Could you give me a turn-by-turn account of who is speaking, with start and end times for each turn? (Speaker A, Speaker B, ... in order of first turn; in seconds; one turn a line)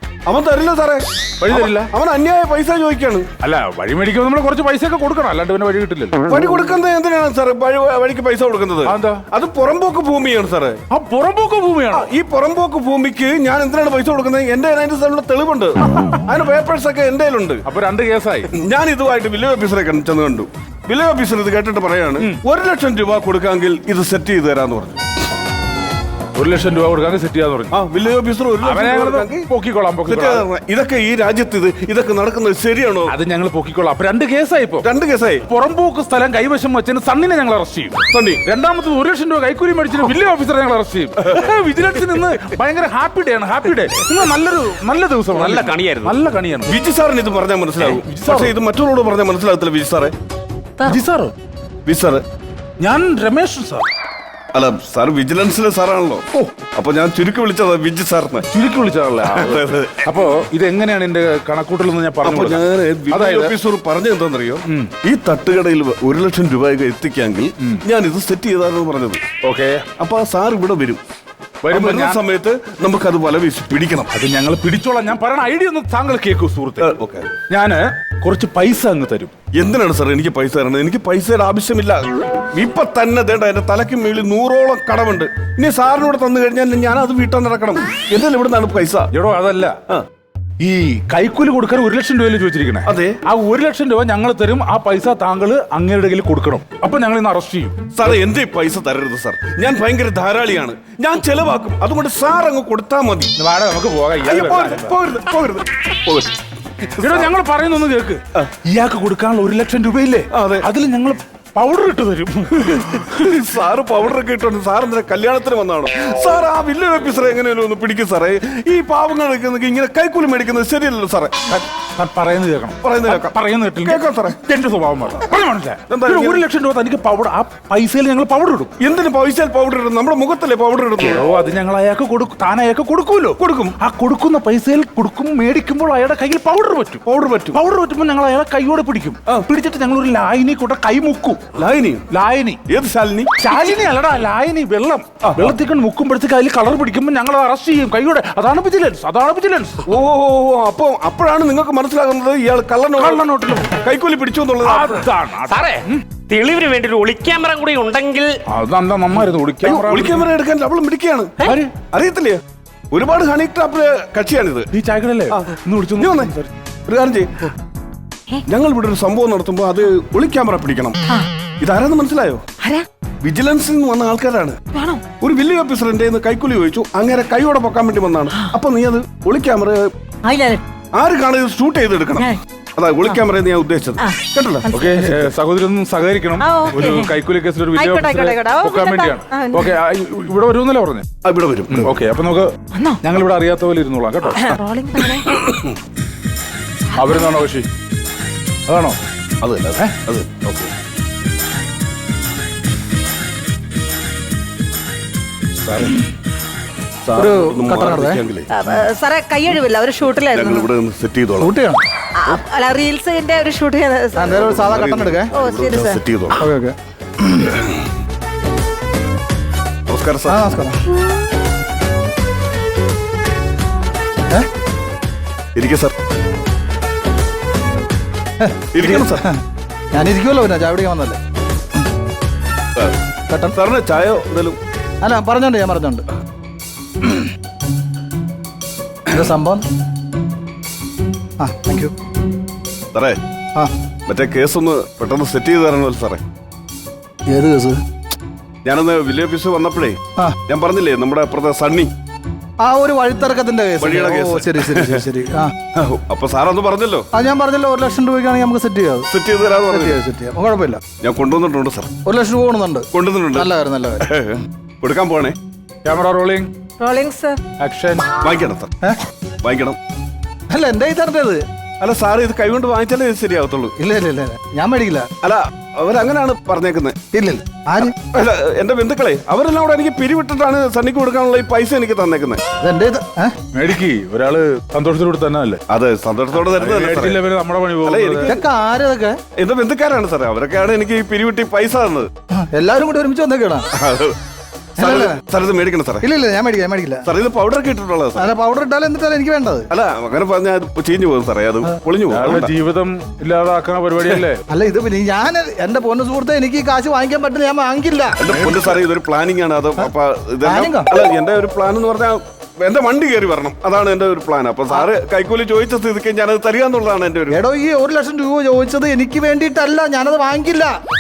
Speaker A: 0.3-3.3
Speaker B: 1.4-1.9
Speaker B: 3.4-6.2
Speaker A: 6.3-10.8
Speaker B: 8.8-9.2
Speaker B: 10.9-12.1
Speaker A: 11.9-17.6
Speaker B: 15.8-16.3
Speaker B: 17.6-18.5
Speaker A: 18.6-25.0
Speaker B: 26.4-27.8
Speaker A: 27.7-29.5
Speaker B: 28.6-30.5
Speaker A: 30.1-33.1
Speaker B: 33.1-34.9
Speaker A: 34.8-35.4
Speaker B: 35.5-46.8
Speaker A: 38.1-38.4
Speaker C: 45.3-46.2
Speaker A: 46.7-50.1
Speaker B: 48.0-48.6
Speaker B: 50.8-51.3
Speaker A: 51.9-52.2
Speaker B: 52.8-53.9
Speaker A: 54.5-58.5
Speaker B: 58.5-63.6
Speaker A: 59.2-60.1
Speaker A: 62.2-69.2
Speaker B: 64.7-64.9
Speaker B: 67.6-67.8
Speaker B: 69.4-69.9
Speaker A: 70.0-71.0
Speaker B: 71.6-72.2
Speaker A: 71.7-74.1
Speaker B: 74.1-76.9
Speaker A: 76.8-77.3
Speaker B: 77.5-79.3
Speaker A: 79.5-89.1
Speaker B: 89.1-89.8
Speaker B: 90.6-97.8
Speaker A: 92.9-93.2
Speaker A: 98.0-103.3
Speaker B: 103.4-105.0
Speaker A: 104.2-107.3
Speaker B: 107.0-113.5
Speaker A: 110.3-110.7
Speaker A: 112.6-121.3
Speaker B: 121.5-128.7
Speaker A: 122.8-124.4
Speaker A: 125.9-126.4
Speaker A: 128.8-131.2
Speaker B: 131.0-141.4
Speaker A: 133.4-133.8
Speaker A: 137.1-137.6
Speaker A: 141.6-142.1
Speaker B: 142.1-142.6
Speaker A: 142.7-143.3
Speaker B: 143.4-149.8
Speaker A: 145.2-145.6
Speaker A: 149.9-155.1
Speaker B: 153.0-153.8
Speaker B: 154.6-156.0
Speaker C: 155.5-158.4
Speaker B: 158.5-160.3
Speaker A: 159.6-164.7
Speaker B: 161.4-161.8
Speaker B: 164.7-166.5
Speaker A: 165.3-166.3
Speaker A: 166.9-167.5
Speaker A: 168.5-171.0
Speaker A: 171.6-172.4
Speaker A: 173.2-174.6
Speaker D: 174.7-175.0
Speaker A: 175.2-179.9
Speaker D: 180.3-180.6
Speaker A: 180.9-185.3
Speaker B: 184.7-191.1
Speaker D: 186.4-187.1
Speaker D: 187.7-189.8
Speaker A: 191.2-191.9
Speaker B: 191.7-194.5
Speaker D: 192.7-193.0
Speaker D: 194.3-195.4
Speaker A: 195.4-195.7
Speaker B: 196.9-197.7
Speaker B: 198.7-199.0
Speaker A: 199.4-200.4
Speaker B: 199.8-200.7
Speaker B: 205.7-205.9
Speaker A: 207.0-208.5
Speaker E: 207.1-208.2
Speaker D: 208.5-210.7
Speaker A: 210.3-211.5
Speaker E: 211.4-211.8
Speaker D: 212.2-214.6
Speaker E: 214.2-215.3
Speaker A: 214.3-216.4
Speaker D: 215.3-216.0
Speaker E: 216.3-217.6
Speaker A: 219.9-220.4
Speaker E: 220.3-220.8
Speaker A: 225.6-225.9
Speaker E: 228.4-229.3
Speaker A: 228.7-229.2
Speaker E: 229.9-231.2
Speaker E: 233.3-233.6
Speaker A: 233.5-234.6
Speaker E: 235.0-236.1
Speaker E: 239.1-239.6
Speaker E: 241.4-241.9
Speaker A: 242.9-243.2
Speaker A: 244.1-246.2
Speaker E: 247.3-247.8
Speaker A: 248.7-251.9
Speaker E: 252.6-255.5
Speaker A: 253.8-255.1
Speaker A: 255.8-257.1
Speaker E: 257.1-259.1
Speaker A: 259.1-260.0
Speaker E: 259.7-260.8
Speaker A: 260.9-261.9
Speaker E: 262.1-264.1
Speaker A: 262.9-263.5
Speaker A: 264.0-265.4
Speaker B: 265.9-266.5
Speaker D: 266.8-267.4
Speaker B: 267.6-268.1
Speaker A: 268.2-268.7
Speaker A: 269.4-269.8
Speaker E: 270.5-271.4
Speaker A: 271.8-273.8
Speaker E: 273.8-275.1
Speaker A: 275.2-277.1
Speaker E: 277.1-278.0
Speaker A: 277.9-282.4
Speaker E: 282.6-283.4
Speaker B: 283.5-285.6
Speaker A: 285.7-287.2
Speaker B: 286.3-288.4
Speaker A: 287.8-288.4
Speaker E: 288.2-289.2
Speaker A: 289.4-292.1
Speaker E: 292.4-293.7
Speaker A: 293.8-294.2
Speaker E: 294.8-295.2
Speaker A: 294.8-296.1
Speaker E: 296.0-297.1
Speaker A: 297.1-298.3
Speaker E: 298.1-299.7
Speaker A: 299.7-302.5
Speaker B: 302.1-304.4
Speaker E: 304.5-308.8
Speaker A: 308.2-317.4
Speaker E: 310.4-310.9
Speaker E: 317.3-320.7